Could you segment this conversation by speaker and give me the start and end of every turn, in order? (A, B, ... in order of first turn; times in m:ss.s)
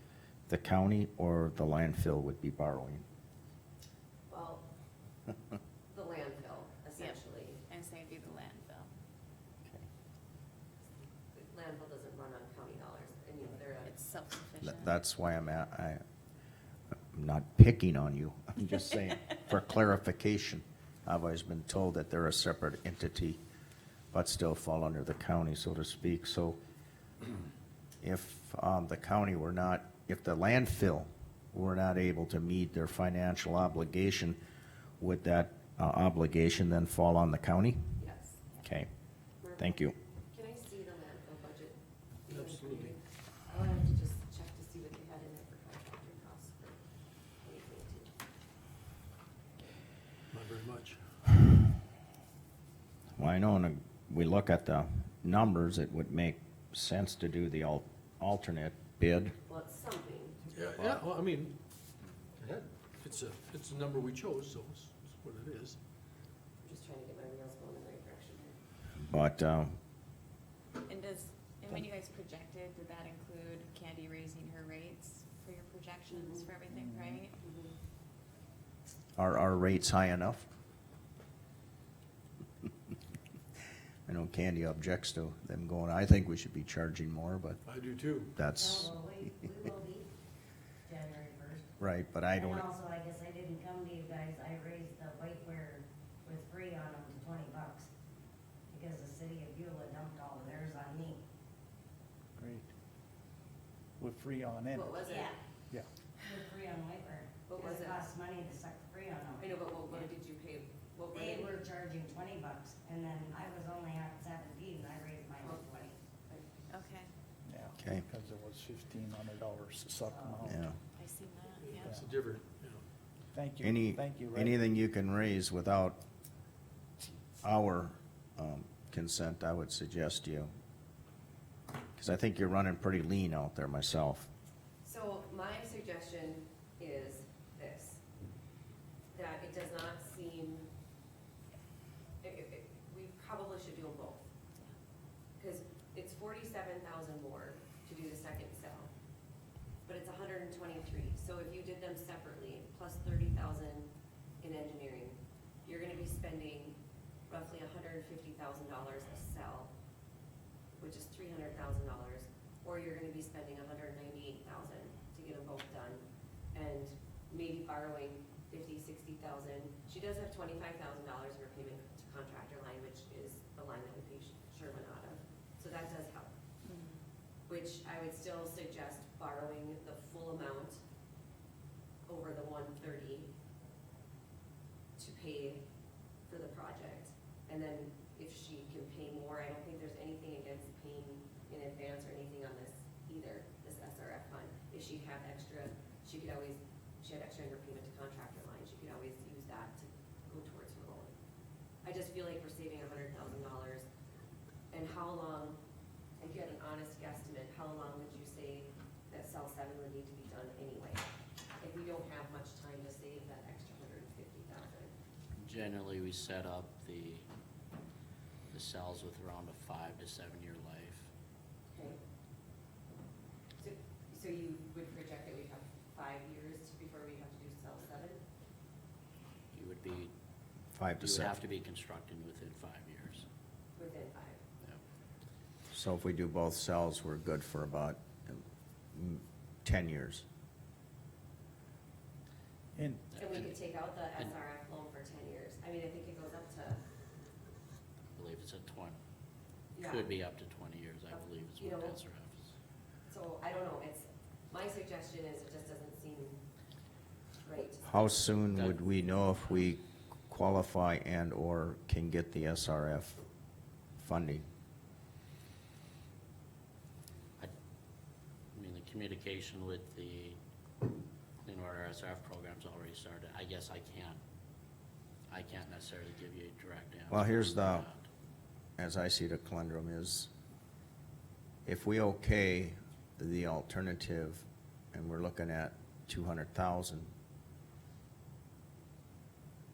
0:00.5-0:03.0 A
0:04.3-0:04.6 B
0:05.9-0:07.6 B
0:07.0-0:08.9 C
0:11.3-0:13.9 B
0:13.8-0:14.9 C
0:14.6-0:16.0 A
0:17.1-0:23.4 A
0:24.1-0:26.6 A
0:28.0-0:34.4 A
0:35.0-0:37.9 A
0:38.0-0:38.4 B
0:38.6-0:38.9 A
0:39.4-0:39.7 B
0:39.6-0:40.0 A
0:40.3-0:41.8 B
0:42.3-0:43.0 D
0:42.3-0:46.8 B
0:47.4-0:48.1 B
0:50.3-0:51.0 D
0:53.2-0:59.3 A
0:59.5-1:00.4 B
1:00.5-1:01.6 D
1:02.4-1:05.8 D
1:06.6-1:08.6 B
1:09.0-1:09.8 A
1:10.9-1:17.3 C
1:16.1-1:16.5 B
1:16.7-1:17.2 E
1:17.4-1:17.7 B
1:19.2-1:20.5 A
1:24.0-1:27.6 A
1:27.6-1:28.4 D
1:28.4-1:28.9 A
1:28.5-1:30.1 F
1:30.8-1:31.7 F
1:31.8-1:32.6 A
1:32.3-1:37.9 F
1:38.7-1:41.2 F
1:42.4-1:42.7 E
1:44.0-1:45.1 E
1:44.7-1:45.4 B
1:46.2-1:50.1 F
1:47.5-1:48.0 B
1:49.4-1:51.6 B
1:51.1-1:56.0 F
1:55.4-1:56.6 B
1:56.7-1:57.1 C
1:57.4-2:00.7 E
1:57.8-1:58.0 A
2:00.1-2:00.4 F
2:00.4-2:00.8 A
2:01.0-2:01.9 C
2:01.8-2:02.1 E
2:01.8-2:02.8 D
2:03.3-2:04.6 E
2:03.6-2:06.0 A
2:07.4-2:10.5 A
2:11.9-2:14.3 A
2:14.8-2:18.0 B
2:19.1-2:20.7 B
2:22.2-2:24.3 B
2:25.4-2:28.9 B
2:29.8-2:33.9 B
2:34.4-2:39.7 B
2:40.8-2:56.3 B
2:56.6-2:57.0 C
2:57.5-3:00.8 B
3:02.1-3:03.3 B
3:05.0-3:05.6 B
3:06.3-3:21.1 B
3:21.8-3:23.8 B
3:24.7-3:25.6 B
3:26.2-3:31.0 B
3:31.6-3:34.9 B
3:35.4-3:37.3 G
3:38.5-3:41.1 G
3:41.7-3:42.0 B
3:43.6-3:48.2 B
3:49.5-3:50.1 G
3:50.7-3:51.4 A
3:51.0-3:53.2 G
3:53.7-3:54.4 B
3:55.7-4:00.2 A
4:02.7-4:03.0 E
4:03.1-4:03.6 G
4:03.1-4:06.8 B
4:08.1-4:09.0 G
4:09.7-4:10.1 B
4:09.8-4:12.5 G
4:11.1-4:12.0 B
4:13.1-4:16.4 B
4:17.4-4:17.9 B
4:17.8-4:23.2 A
4:24.0-4:24.4 A
4:28.5-4:30.4 G
4:31.4-4:34.2 G
4:35.3-4:38.0 G
4:37.1-4:37.9 A
4:38.8-4:40.3 A
4:41.6-4:47.1 A